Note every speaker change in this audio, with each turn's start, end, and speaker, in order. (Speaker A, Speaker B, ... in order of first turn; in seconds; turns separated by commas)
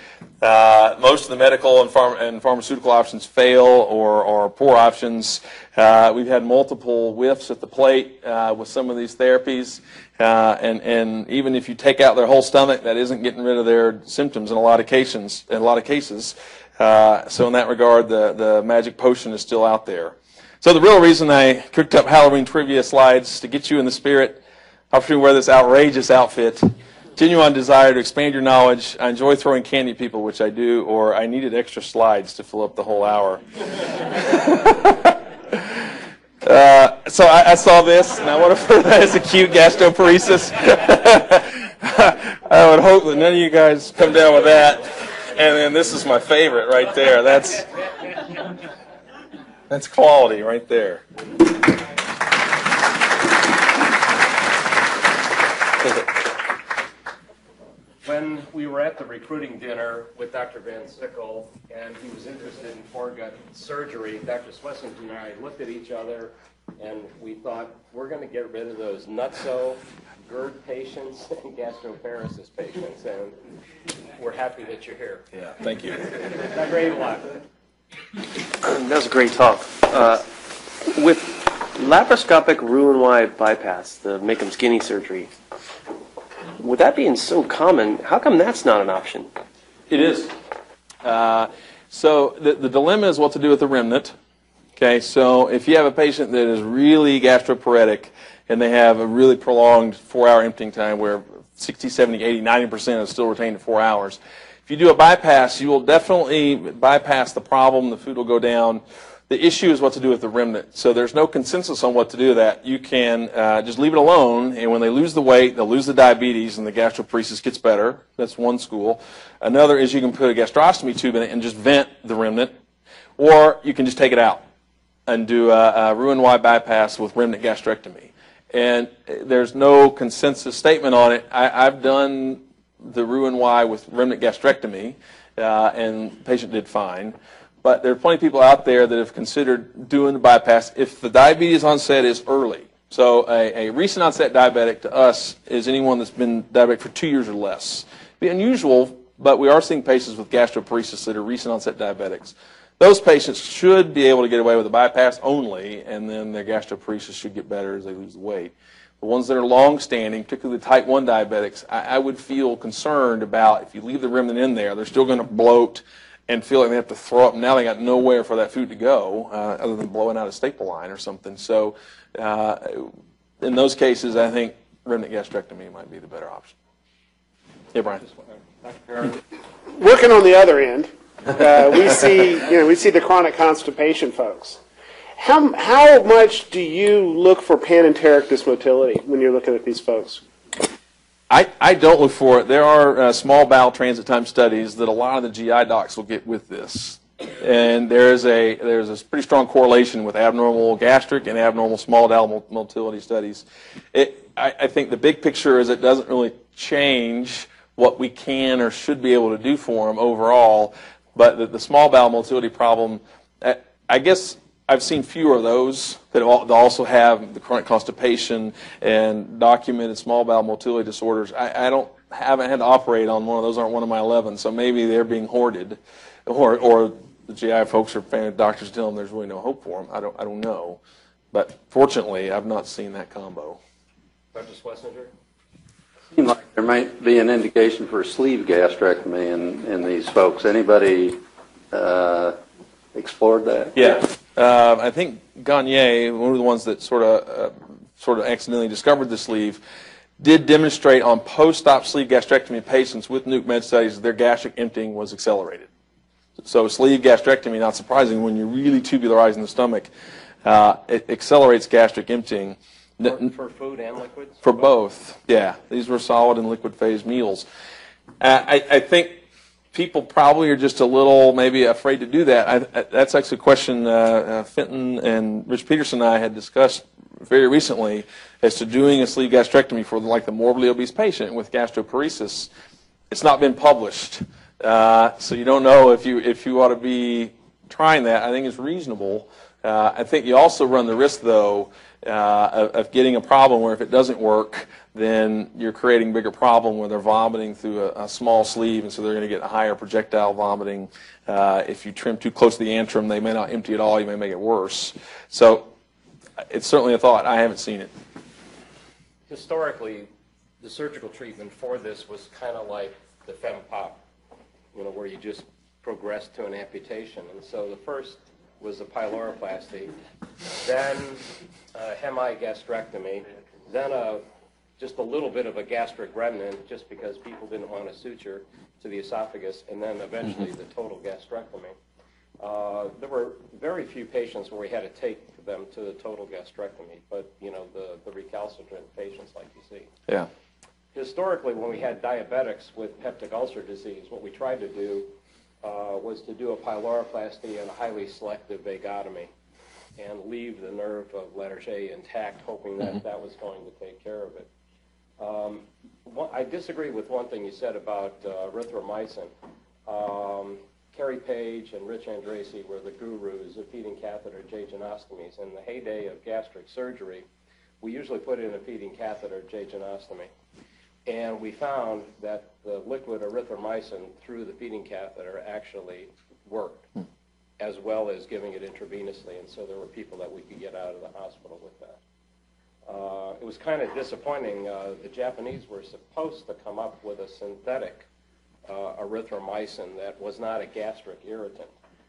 Speaker A: 0.4-35.9, Speaker A: 36.4-47.7, Speaker A: 49.7-51.0, Speaker B: 58.0-73.4, Speaker B: 74.2-75.2, Speaker A: 75.3-76.0, Speaker B: 76.4-77.3, Speaker C: 78.6-80.3, Speaker C: 80.8-85.3, Speaker C: 86.6-89.3, Speaker A: 89.9-90.3, Speaker A: 91.0-94.2, Speaker A: 94.8-122.5, Speaker A: 123.2-124.4, Speaker A: 125.1-176.6, Speaker A: 177.7-178.0, Speaker B: 178.0-179.2, Speaker D: 179.7-184.6, Speaker D: 185.2-190.2, Speaker A: 191.3-230.8, Speaker A: 231.3-233.6, Speaker B: 234.3-235.1, Speaker E: 236.1-241.2, Speaker E: 241.7-242.4, Speaker E: 242.9-243.8, Speaker A: 243.8-249.6, Speaker A: 250.2-255.7, Speaker A: 256.4-259.9, Speaker A: 260.4-263.2, Speaker B: 263.0-264.6, Speaker A: 264.4-267.5, Speaker A: 268.2-269.2, Speaker A: 269.7-282.5, Speaker A: 283.1-305.7, Speaker A: 306.5-307.9, Speaker B: 309.3-310.1, Speaker B: 310.6-314.0, Speaker B: 314.7-319.9, Speaker B: 320.6-324.2, Speaker B: 324.8-331.8, Speaker B: 332.4-339.9, Speaker B: 340.9-345.1, Speaker B: 345.6-349.3, Speaker B: 350.0-354.5, Speaker B: 355.2-359.3, Speaker B: 359.9-367.2, Speaker B: 367.8-370.3, Speaker B: 371.1-376.9, Speaker B: 377.6-382.0, Speaker B: 382.9-388.1, Speaker B: 388.7-391.7